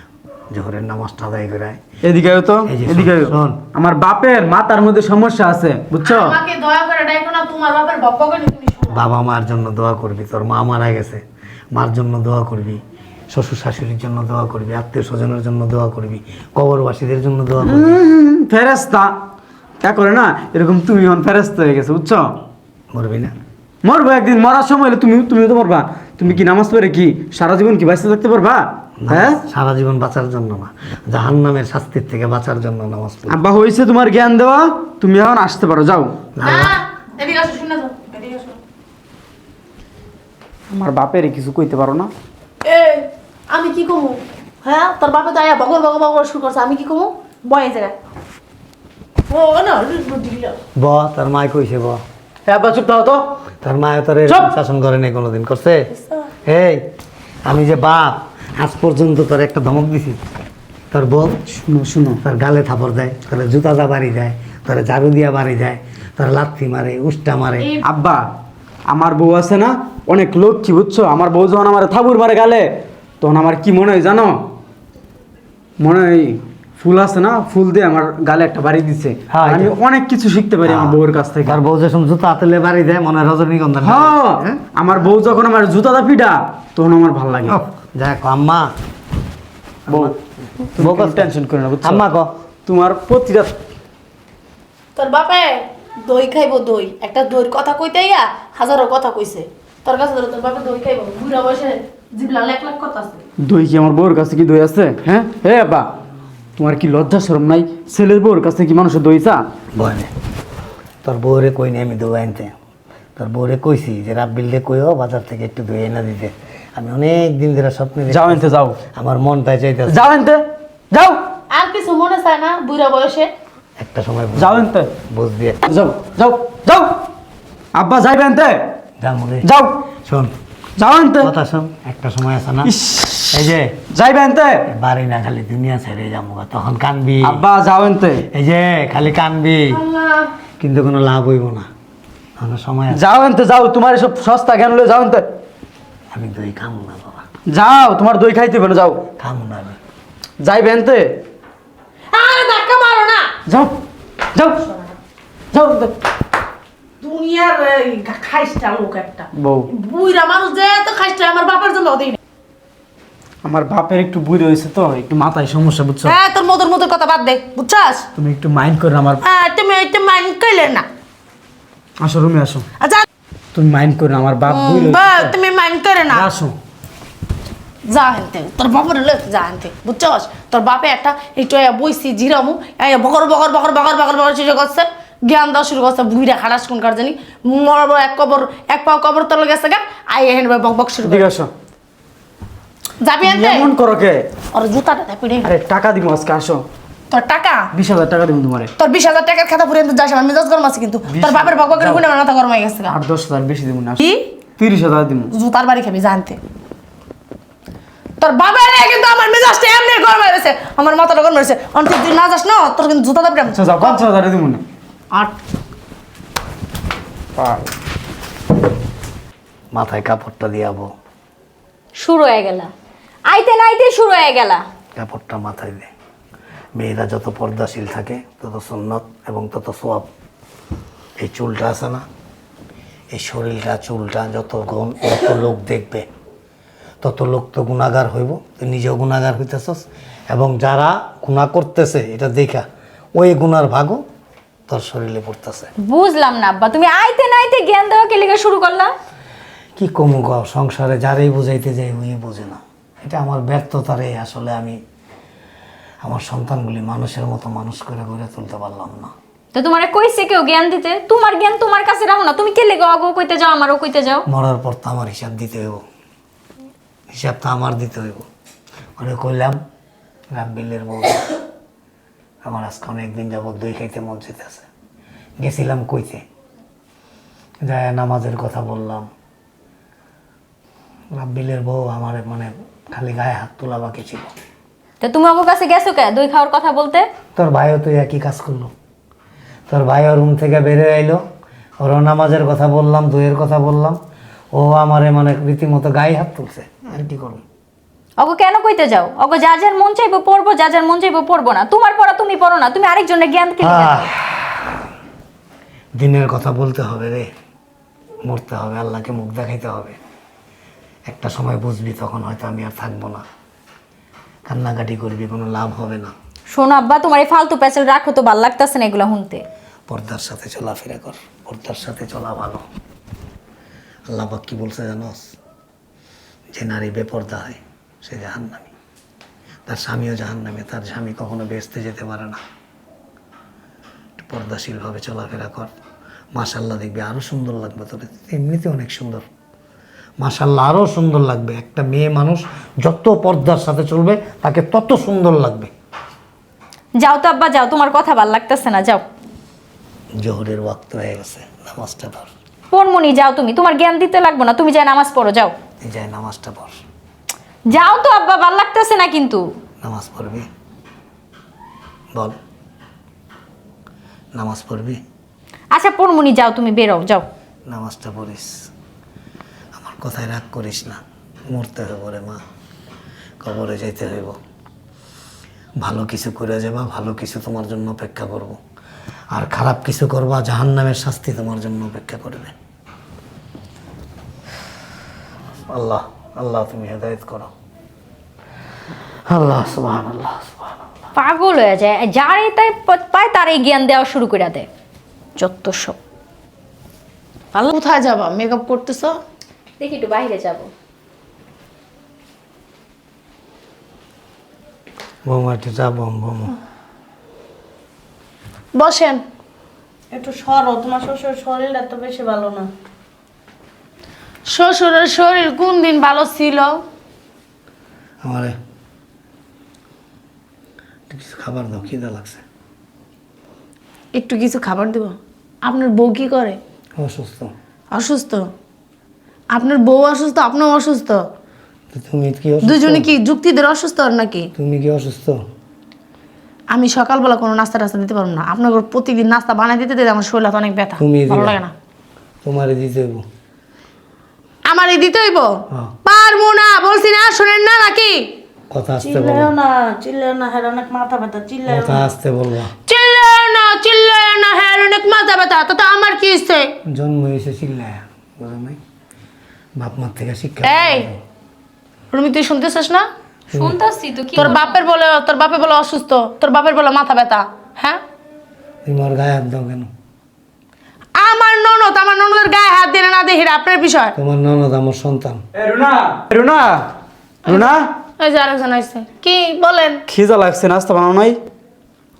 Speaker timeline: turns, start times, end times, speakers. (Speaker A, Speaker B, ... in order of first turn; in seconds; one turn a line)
Speaker A: 0.5-1.8
Speaker B: 2.0-6.4
Speaker A: 2.6-3.6
Speaker C: 6.0-9.0
Speaker A: 8.9-11.2
Speaker A: 11.7-18.0
Speaker B: 17.6-19.1
Speaker B: 19.8-22.4
Speaker A: 22.9-23.3
Speaker B: 23.8-29.4
Speaker A: 29.0-33.4
Speaker B: 33.3-36.2
Speaker A: 36.4-36.8
Speaker C: 36.4-38.6
Speaker B: 40.7-42.1
Speaker C: 42.6-47.9
Speaker C: 49.3-50.6
Speaker A: 50.8-52.0
Speaker B: 52.5-53.2
Speaker A: 53.6-55.9
Speaker B: 54.3-54.5
Speaker C: 55.9-56.3
Speaker A: 56.4-56.9
Speaker A: 57.4-60.2
Speaker A: 60.9-61.4
Speaker B: 61.5-62.2
Speaker A: 62.2-67.8
Speaker B: 67.8-68.2
Speaker B: 68.9-72.7
Speaker B: 73.2-74.4
Speaker B: 75.8-81.6
Speaker A: 79.3-79.7
Speaker A: 80.6-84.2
Speaker B: 83.8-87.6
Speaker A: 87.5-88.7
Speaker B: 89.9-90.1
Speaker A: 89.9-91.3
Speaker B: 90.7-92.1
Speaker A: 91.8-92.3
Speaker B: 92.7-93.5
Speaker C: 95.0-103.2
Speaker B: 103.4-105.9
Speaker B: 106.6-109.4
Speaker A: 109.7-110.1
Speaker A: 111.0-112.5
Speaker A: 113.2-118.4
Speaker B: 118.1-118.8
Speaker A: 118.9-120.1
Speaker B: 119.9-121.2
Speaker C: 121.5-123.3
Speaker A: 123.8-125.6
Speaker B: 124.3-124.9
Speaker B: 125.7-127.0
Speaker B: 127.7-128.6
Speaker A: 129.0-129.5
Speaker B: 129.4-129.8
Speaker A: 130.1-130.3
Speaker B: 130.8-131.3
Speaker A: 131.2-132.7
Speaker B: 132.6-134.7
Speaker A: 133.3-133.7
Speaker A: 134.7-137.4
Speaker B: 137.2-138.3
Speaker A: 138.3-139.8
Speaker C: 139.8-140.3
Speaker A: 140.6-141.7
Speaker A: 142.4-143.0
Speaker B: 142.9-145.2
Speaker A: 146.1-147.2
Speaker B: 147.5-149.0
Speaker A: 149.2-149.8
Speaker B: 150.4-151.2
Speaker C: 152.1-153.3
Speaker B: 153.4-153.7
Speaker B: 154.3-154.7
Speaker C: 154.7-154.9
Speaker B: 155.5-155.9
Speaker C: 157.0-162.2
Speaker B: 159.3-159.7
Speaker B: 163.4-166.2
Speaker C: 166.1-168.1
Speaker B: 168.2-169.2
Speaker C: 169.2-170.8
Speaker B: 172.0-172.7
Speaker C: 172.8-173.0
Speaker B: 173.5-175.3
Speaker C: 174.4-176.3
Speaker B: 176.1-176.5
Speaker C: 177.9-191.2
Speaker B: 191.0-191.5
Speaker C: 193.0-193.7
Speaker B: 193.2-194.2
Speaker C: 194.5-195.5
Speaker B: 195.4-196.6
Speaker C: 197.1-197.7
Speaker B: 197.7-198.7
Speaker C: 198.8-202.9
Speaker B: 201.1-202.0
Speaker B: 202.9-204.0
Speaker B: 204.6-205.3
Speaker C: 205.3-206.4
Speaker C: 208.2-214.0
Speaker B: 213.4-214.6
Speaker B: 217.3-217.7
Speaker A: 219.7-220.9
Speaker D: 222.0-222.7
Speaker D: 223.3-224.6
Speaker A: 224.9-225.9
Speaker A: 226.8-230.1
Speaker A: 231.2-232.0
Speaker A: 233.1-236.1
Speaker A: 237.0-242.6
Speaker A: 243.2-244.0
Speaker A: 244.7-245.7
Speaker D: 245.8-248.9
Speaker A: 249.8-254.8
Speaker A: 256.0-259.1
Speaker D: 259.5-264.2
Speaker A: 264.3-265.8
Speaker A: 267.1-268.3
Speaker A: 269.0-269.6
Speaker A: 270.3-271.4
Speaker A: 272.4-274.7
Speaker A: 275.4-276.2
Speaker A: 277.6-279.1
Speaker A: 281.1-284.3
Speaker D: 285.0-287.1
Speaker A: 287.4-288.7
Speaker A: 289.7-291.2
Speaker A: 291.8-294.0
Speaker A: 294.5-297.4
Speaker D: 298.2-304.1
Speaker A: 303.6-304.7
Speaker A: 306.0-307.3
Speaker A: 308.2-310.0
Speaker A: 311.1-313.2
Speaker A: 314.5-316.1
Speaker D: 316.5-319.4
Speaker A: 319.9-322.6
Speaker A: 324.1-325.3
Speaker A: 326.5-328.7
Speaker A: 329.7-332.4
Speaker A: 334.2-335.7
Speaker A: 336.3-339.2
Speaker A: 340.2-345.7
Speaker D: 347.0-349.1
Speaker A: 350.2-352.3
Speaker D: 352.7-355.5
Speaker A: 355.8-356.8
Speaker D: 357.7-359.4
Speaker A: 359.8-360.5
Speaker A: 364.3-365.0
Speaker D: 365.7-367.3
Speaker A: 367.7-368.7
Speaker A: 369.8-372.4
Speaker A: 373.4-374.4
Speaker A: 375.8-378.6
Speaker A: 379.3-382.5
Speaker A: 385.7-387.5
Speaker A: 389.3-390.9
Speaker D: 391.1-394.7
Speaker C: 395.4-396.0
Speaker C: 397.5-399.1
Speaker D: 399.8-400.7
Speaker A: 405.2-406.6
Speaker C: 408.7-409.2
Speaker E: 410.1-412.7
Speaker C: 414.5-416.7
Speaker A: 418.2-418.5
Speaker A: 421.1-422.4
Speaker C: 424.1-426.6
Speaker A: 427.0-427.5
Speaker C: 427.9-428.4
Speaker C: 429.5-431.2
Speaker A: 431.9-433.1
Speaker C: 432.6-434.5
Speaker A: 434.6-435.4
Speaker C: 436.7-441.7
Speaker A: 441.0-441.6
Speaker A: 442.4-443.2
Speaker C: 444.6-445.5
Speaker C: 446.0-448.3
Speaker A: 448.7-449.5
Speaker E: 449.0-452.1
Speaker A: 451.6-452.7
Speaker C: 452.9-456.7
Speaker A: 456.9-458.8
Speaker A: 459.8-461.2
Speaker C: 460.6-461.1
Speaker C: 462.1-463.1
Speaker D: 463.5-464.8
Speaker C: 464.3-468.0
Speaker A: 468.8-469.9
Speaker C: 471.1-474.1
Speaker A: 474.1-475.4
Speaker B: 475.5-476.9
Speaker B: 477.4-477.8
Speaker C: 477.4-480.0
Speaker B: 480.1-481.4